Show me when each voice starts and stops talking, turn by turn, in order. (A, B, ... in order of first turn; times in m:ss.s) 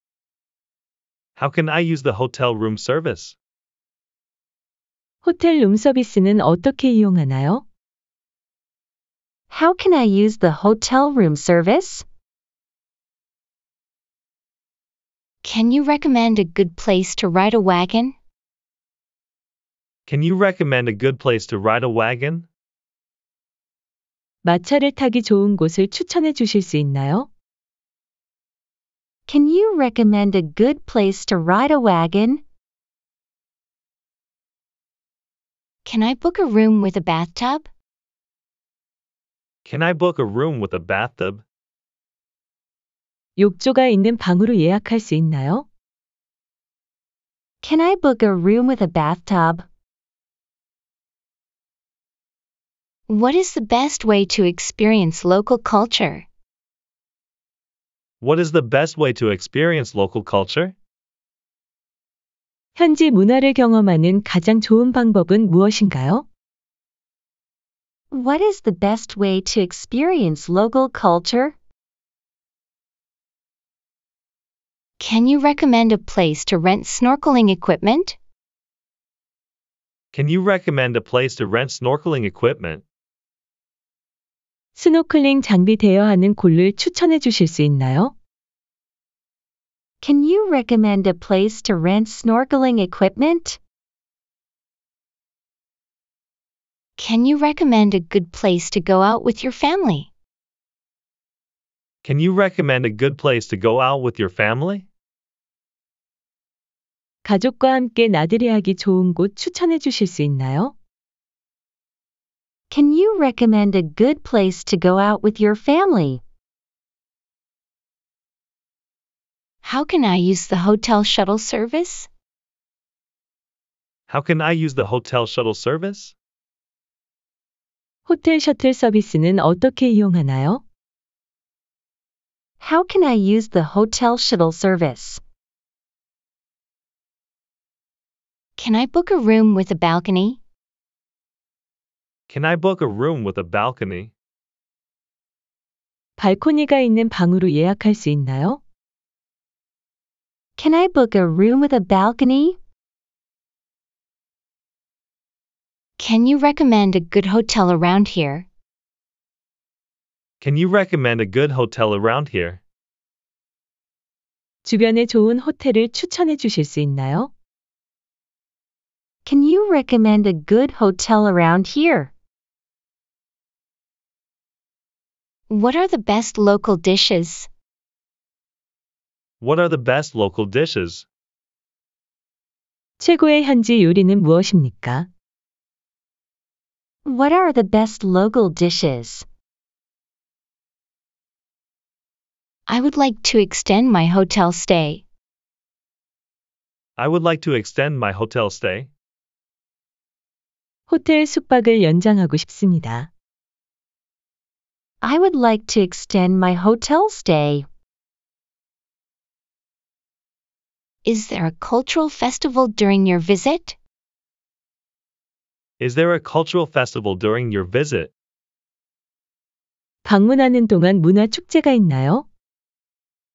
0:01.4-0:03.4 A
0:05.2-0:07.6 B
0:09.5-0:12.0 C
0:15.4-0:18.2 D
0:20.1-0:22.5 A
0:24.4-0:27.3 B
0:29.3-0:32.4 C
0:35.8-0:37.7 D
0:39.6-0:41.4 A
0:43.4-0:45.6 B
0:47.6-0:49.7 C
0:53.1-0:56.3 D
0:58.2-1:00.8 A
1:02.8-1:06.2 B
1:08.1-1:11.6 C
1:15.0-1:18.2 D
1:20.1-1:22.8 A
1:24.8-1:28.1 B
1:30.0-1:33.6 C
1:37.0-1:40.1 D
1:42.0-1:44.9 A
1:47.2-1:50.7 B
1:52.7-1:56.2 C
1:59.6-2:02.1 D
2:04.1-2:06.1 A
2:08.1-2:10.6 B
2:12.6-2:15.2 C
2:18.6-2:20.4 D
2:22.3-2:24.1 A
2:26.2-2:28.6 B
2:30.6-2:32.6 C
2:36.0-2:38.5 D
2:40.4-2:42.6 A
2:44.6-2:47.3 B
2:49.3-2:52.1 C
2:55.5-2:57.5 D
2:59.4-3:01.0 A
3:03.0-3:05.1 B
3:07.0-3:09.2 C
3:12.7-3:15.0 D
3:17.0-3:18.9 A
3:20.9-3:23.1 B
3:25.0-3:27.7 C
3:31.0-3:33.8 D
3:35.8-3:38.1 A
3:40.0-3:42.2 B